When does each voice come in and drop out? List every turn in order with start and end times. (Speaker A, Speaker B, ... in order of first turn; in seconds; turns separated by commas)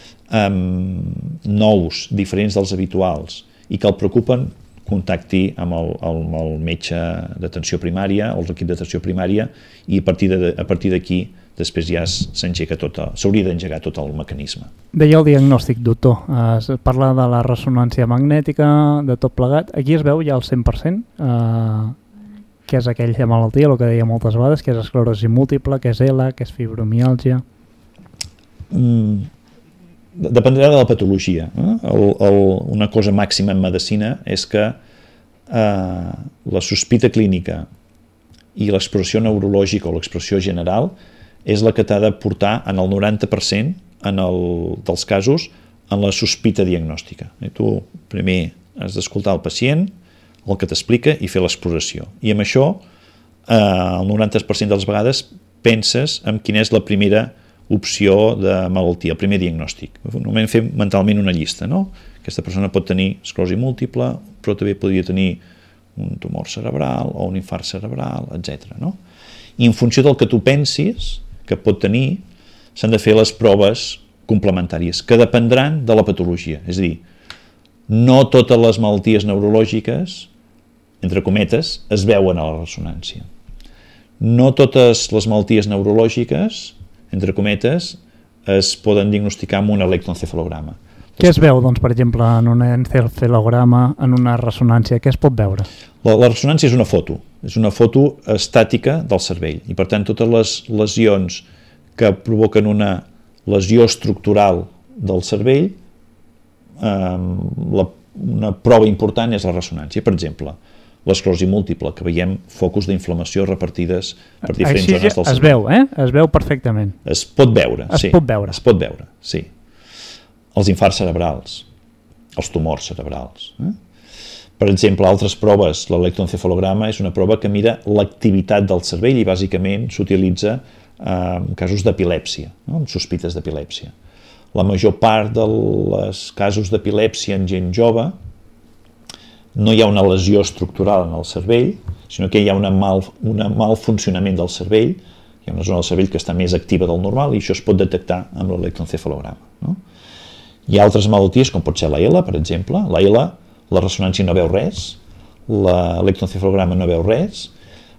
Speaker A: 0.3-14.7, Speaker B: 14.9-22.0, Speaker B: 22.7-27.4, Speaker A: 28.7-29.3, Speaker A: 30.2-34.8, Speaker A: 35.5-37.7, Speaker A: 38.5-49.9, Speaker A: 50.5-52.8, Speaker A: 53.5-65.4, Speaker A: 66.0-69.0, Speaker A: 69.6-72.2, Speaker A: 72.8-77.0, Speaker A: 77.9-80.3, Speaker A: 81.0-83.3, Speaker A: 84.2-91.3, Speaker B: 91.2-95.7, Speaker A: 96.0-101.4, Speaker A: 102.0-105.8, Speaker A: 106.8-115.6, Speaker B: 114.5-117.0, Speaker A: 117.0-119.5, Speaker B: 117.9-118.6, Speaker A: 120.5-121.7, Speaker A: 122.3-123.8, Speaker A: 124.6-133.9, Speaker A: 134.5-138.2, Speaker A: 139.6-149.8, Speaker A: 150.7-157.5